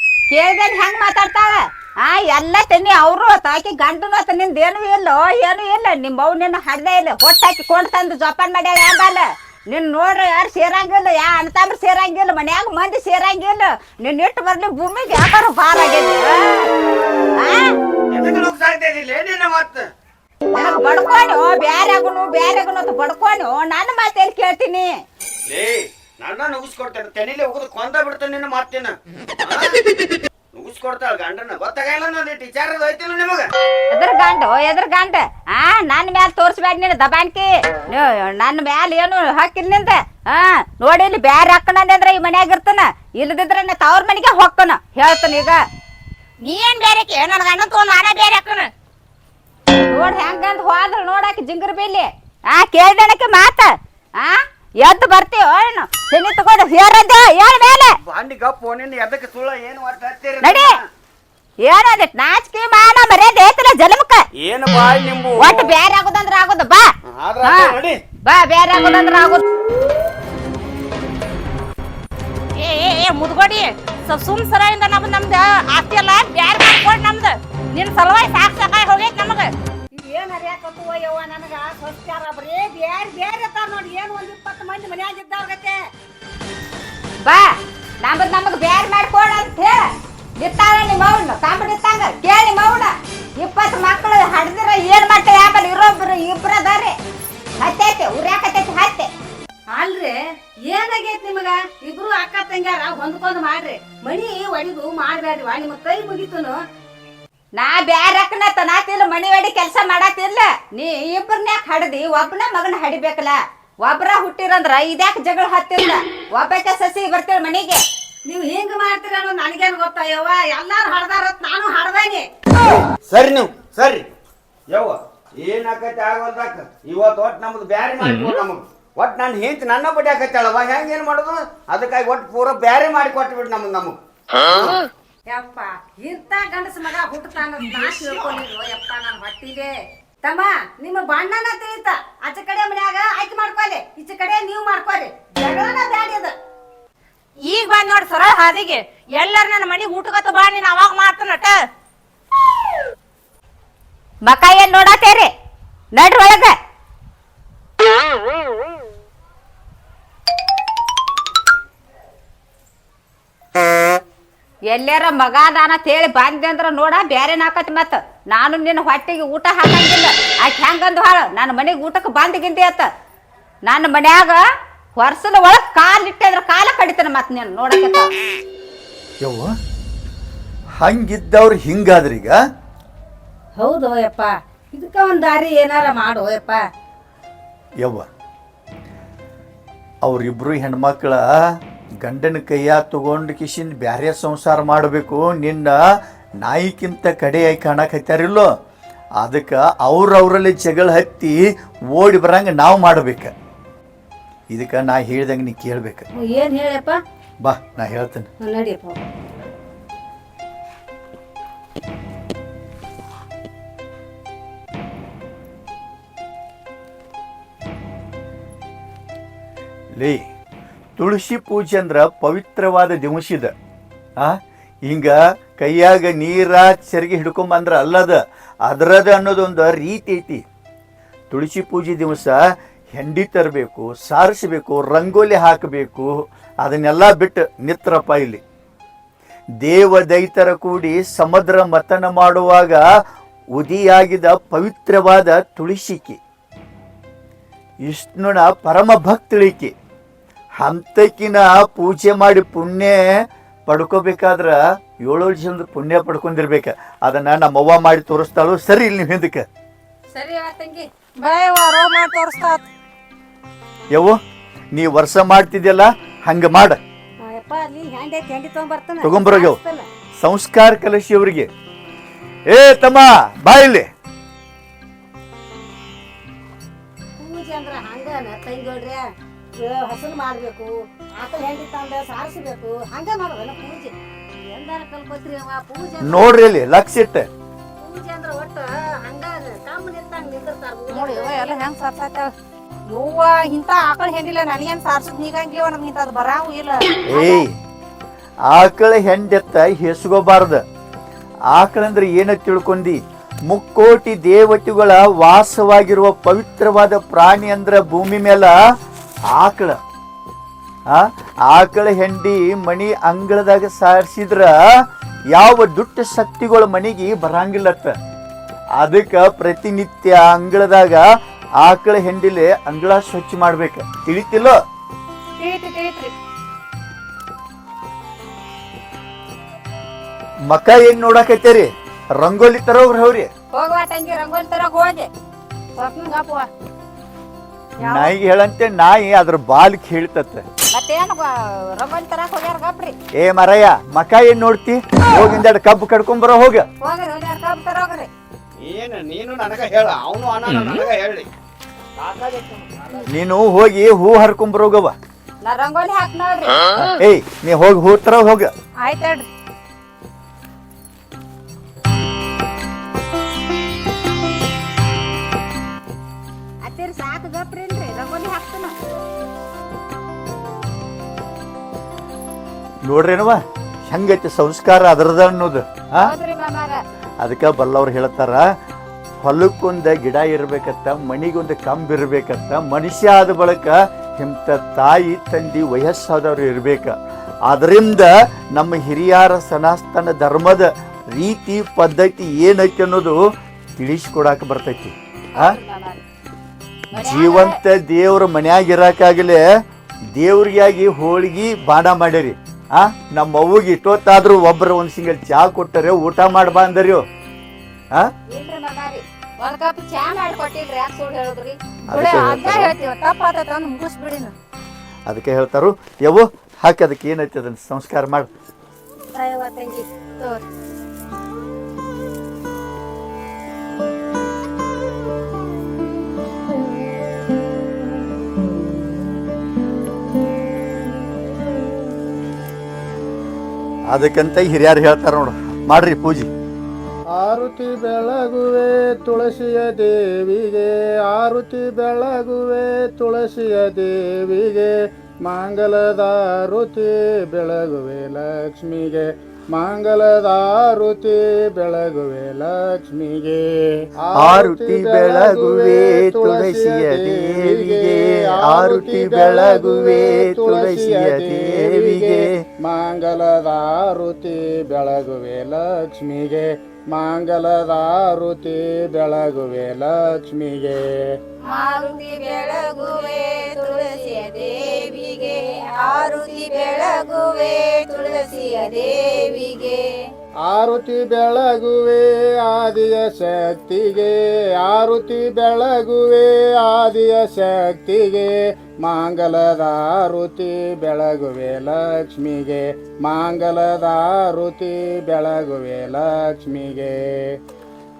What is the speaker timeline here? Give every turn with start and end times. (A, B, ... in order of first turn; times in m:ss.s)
0:00.3-0:16.7 A
0:17.4-0:17.7 A
0:18.1-0:19.9 B
0:20.5-0:24.9 A
0:25.5-0:29.8 B
0:30.5-0:33.5 B
0:33.9-0:45.6 A
0:46.4-0:48.7 C
0:49.9-0:57.9 A
0:58.1-1:00.8 B
1:00.4-1:00.7 A
1:01.6-1:04.2 A
1:04.4-1:05.7 B
1:05.4-1:06.9 A
1:07.1-1:08.0 B
1:07.4-1:07.7 A
1:08.2-1:09.4 A
1:12.6-1:19.5 C
1:20.0-1:25.8 D
1:28.0-1:29.8 A
1:30.4-1:36.9 A
1:37.6-1:39.1 A
1:39.7-1:46.6 D
1:47.6-1:57.8 A
1:58.2-2:02.2 D
2:02.6-2:04.0 B
2:04.7-2:14.0 B
2:15.3-2:19.7 D
2:20.2-2:26.3 D
2:27.4-2:31.6 C
2:34.2-2:35.3 A
2:35.9-2:36.5 A
2:44.7-2:52.9 A
2:53.7-2:54.4 A
2:55.0-2:58.1 A
2:59.2-2:59.5 E
3:00.8-3:02.4 E
3:03.6-3:06.6 D
3:10.0-3:11.2 E
3:12.0-3:15.8 E
3:16.4-3:18.5 E
3:19.2-3:21.4 E
3:21.9-3:23.3 E
3:24.5-3:26.0 E
3:26.2-3:27.0 C
3:27.4-3:28.3 E
3:28.4-3:29.0 D
3:40.0-3:40.2 E
3:41.0-3:43.5 E
3:44.2-3:50.4 E
3:51.3-3:52.4 E
3:52.9-3:56.1 E
3:56.6-3:58.4 E
3:59.6-4:02.8 E
4:03.6-4:06.2 E
4:07.8-4:09.7 E
4:10.6-4:13.0 E
4:13.7-4:19.4 E
4:20.1-4:20.9 A
4:21.2-4:22.6 C
4:24.7-4:26.8 E
4:27.2-4:29.8 D
4:29.0-4:29.6 E
4:30.2-4:31.5 E
4:32.5-4:33.8 E
4:37.2-4:39.0 D
4:39.6-4:46.3 D
4:46.0-4:47.3 E
4:47.8-4:51.5 D
4:50.9-4:52.3 C
4:52.9-4:56.9 C
4:57.1-4:57.5 E
4:58.5-5:00.6 E
5:01.5-5:08.5 E
5:09.3-5:09.8 E
5:10.9-5:17.9 E
5:18.8-5:21.0 E
5:21.6-5:24.6 E
5:25.4-5:26.1 C
5:30.5-5:31.7 E
5:32.2-5:33.3 E
5:33.5-5:35.1 A
5:35.8-5:36.5 C
5:37.8-5:40.4 E
5:37.8-5:38.1 C
5:40.7-5:43.0 A
5:43.2-5:46.6 E
5:46.8-5:48.1 A
5:48.6-5:51.3 B
5:52.0-5:53.0 B
5:53.1-5:54.9 E
5:55.4-5:56.7 A
5:56.7-5:58.5 E
5:58.8-5:59.2 C
6:06.6-6:08.7 A
6:12.8-6:16.1 E
6:16.0-6:16.8 A
6:17.2-6:18.4 E
6:19.2-6:26.9 E
6:27.5-6:33.2 E
6:33.8-6:35.6 E
6:35.3-6:36.0 A
6:36.9-6:37.5 A
6:36.9-6:39.4 E
6:40.1-6:47.0 E
6:48.3-6:51.6 A
6:51.9-6:52.7 E
6:51.9-6:54.3 C
6:55.1-6:58.3 E
6:59.2-6:59.8 D
7:13.9-7:16.3 E
7:17.2-7:50.8 F
7:34.2-7:42.3 E
7:51.5-7:59.9 A
8:00.4-8:17.4 F